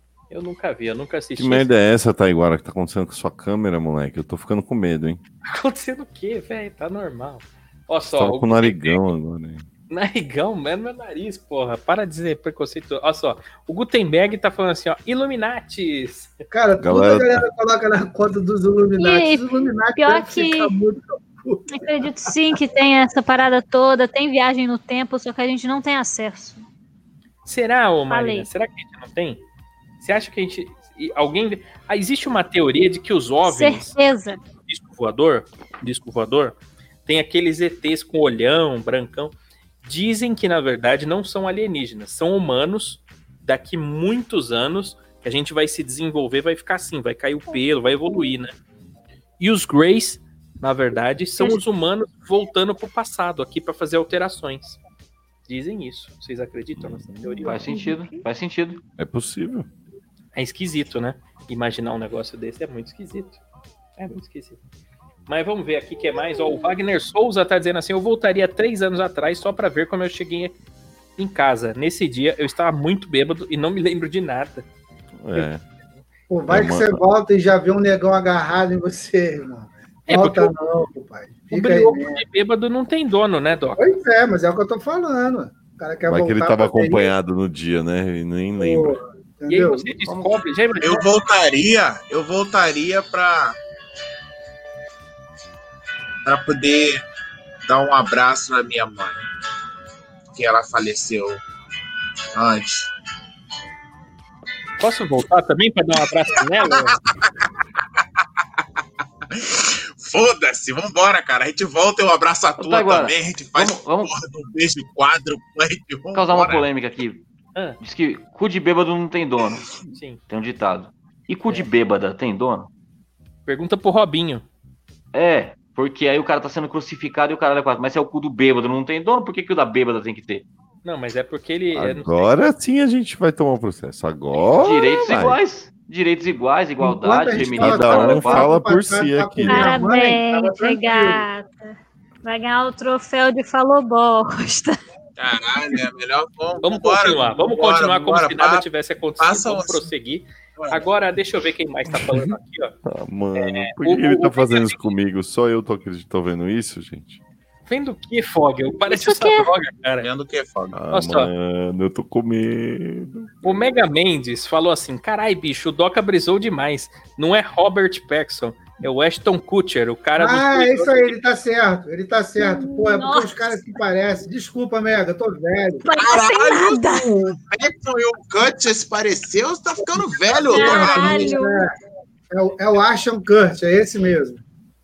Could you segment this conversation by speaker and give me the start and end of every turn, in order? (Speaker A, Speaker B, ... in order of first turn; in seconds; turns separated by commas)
Speaker A: 0.3-1.7, Speaker B: 1.4-5.2, Speaker A: 5.5-9.1, Speaker B: 8.1-9.6, Speaker A: 9.9-16.3, Speaker C: 16.5-22.1, Speaker B: 16.8-17.4, Speaker D: 19.0-20.8, Speaker D: 21.7-26.7, Speaker A: 27.4-29.4, Speaker D: 28.1-28.5, Speaker A: 30.0-34.0, Speaker D: 33.5-34.4, Speaker A: 34.6-48.5, Speaker A: 49.4-54.8, Speaker A: 55.5-57.9, Speaker B: 56.8-57.6, Speaker E: 57.5-58.8, Speaker D: 57.6-58.2, Speaker B: 59.0-59.7, Speaker A: 60.4-63.4, Speaker A: 64.0-64.6, Speaker A: 65.3-70.5, Speaker A: 71.2-74.7, Speaker B: 75.2-75.6, Speaker C: 76.3-82.2, Speaker B: 76.5-77.0, Speaker A: 80.1-80.5, Speaker A: 81.5-83.8, Speaker C: 83.8-87.1, Speaker B: 86.1-89.0, Speaker C: 88.6-89.9, Speaker A: 89.5-91.1, Speaker F: 90.8-93.6, Speaker F: 96.2-97.0, Speaker F: 97.7-99.2, Speaker F: 100.3-101.4, Speaker F: 102.3-102.9, Speaker A: 104.8-107.0, Speaker F: 106.4-107.3, Speaker F: 109.3-116.7, Speaker E: 112.6-114.1, Speaker E: 116.1-117.2, Speaker E: 117.8-119.7, Speaker A: 119.9-120.2, Speaker E: 120.3-122.7, Speaker A: 123.5-124.5, Speaker E: 125.1-130.5, Speaker A: 130.8-132.3, Speaker B: 131.7-135.4, Speaker E: 134.6-138.5, Speaker C: 136.8-141.2, Speaker B: 137.4-139.8, Speaker D: 139.5-144.8, Speaker F: 145.2-148.6, Speaker A: 146.6-152.8, Speaker F: 149.2-149.9, Speaker F: 150.6-150.8, Speaker B: 151.9-152.2, Speaker B: 152.8-157.2, Speaker A: 153.3-154.9, Speaker A: 157.7-160.1, Speaker D: 158.9-159.5, Speaker F: 160.0-160.8, Speaker B: 160.7-163.3, Speaker A: 160.9-161.3, Speaker A: 163.4-171.2, Speaker C: 170.2-175.9, Speaker D: 172.4-173.8, Speaker D: 175.8-177.3, Speaker F: 175.9-181.4, Speaker C: 179.9-181.7, Speaker D: 180.5-181.7, Speaker C: 182.3-184.4